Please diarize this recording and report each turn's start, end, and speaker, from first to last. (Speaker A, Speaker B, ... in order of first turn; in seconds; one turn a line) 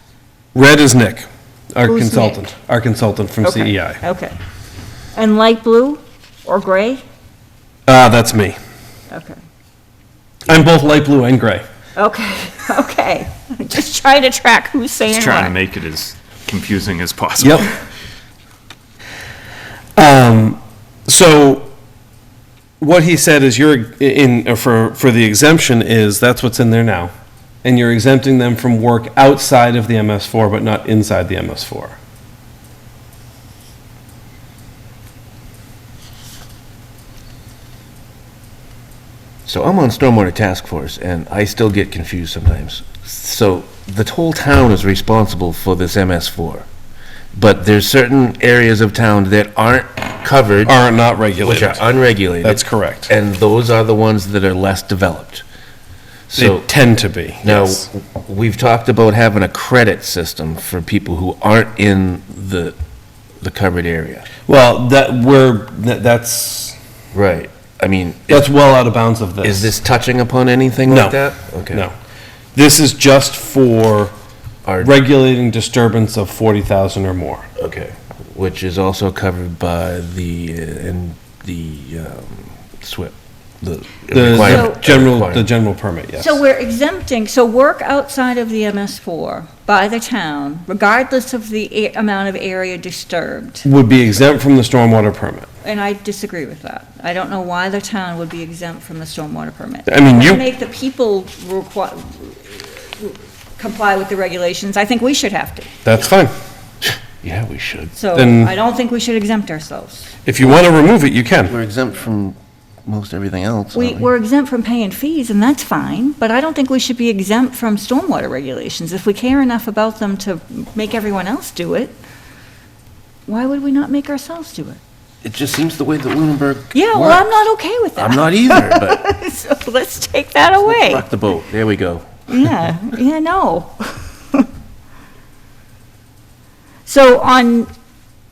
Speaker A: 0.5-4.0
Speaker B: 1.9-2.4
Speaker B: 3.4-4.3
Speaker B: 5.2-7.0
Speaker A: 7.9-8.6
Speaker B: 9.1-9.4
Speaker A: 10.5-11.6
Speaker B: 12.0-15.6
Speaker C: 15.1-17.8
Speaker A: 17.4-17.7
Speaker A: 20.0-21.7
Speaker A: 22.8-27.1
Speaker A: 27.6-32.0
Speaker D: 39.5-46.7
Speaker D: 47.3-50.7
Speaker A: 50.6-51.8
Speaker D: 51.4-55.4
Speaker A: 52.4-53.1
Speaker D: 56.3-56.6
Speaker A: 56.4-57.9
Speaker D: 57.4-62.8
Speaker D: 63.4-64.3
Speaker A: 64.5-66.8
Speaker D: 67.1-68.5
Speaker A: 68.3-69.7
Speaker D: 69.4-71.8
Speaker A: 70.9-71.2
Speaker A: 72.5-74.1
Speaker D: 74.7-74.9
Speaker A: 74.8-77.5
Speaker D: 77.6-85.5
Speaker A: 84.1-86.4
Speaker B: 84.4-84.8
Speaker B: 86.2-93.7
Speaker A: 93.6-95.5
Speaker B: 95.6-105.7
Speaker A: 99.9-100.4
Speaker A: 105.8-106.3
Speaker D: 106.8-107.9
Speaker B: 107.9-110.1
Speaker A: 108.2-108.5
Speaker A: 110.2-111.5
Speaker D: 111.5-114.1
Speaker B: 113.7-121.9
Speaker B: 123.3-124.8
Speaker D: 125.2-127.2
Speaker B: 126.7-131.0
Speaker D: 128.0-129.1
Speaker D: 130.6-132.0
Speaker B: 132.3-134.5
Speaker B: 136.9-137.7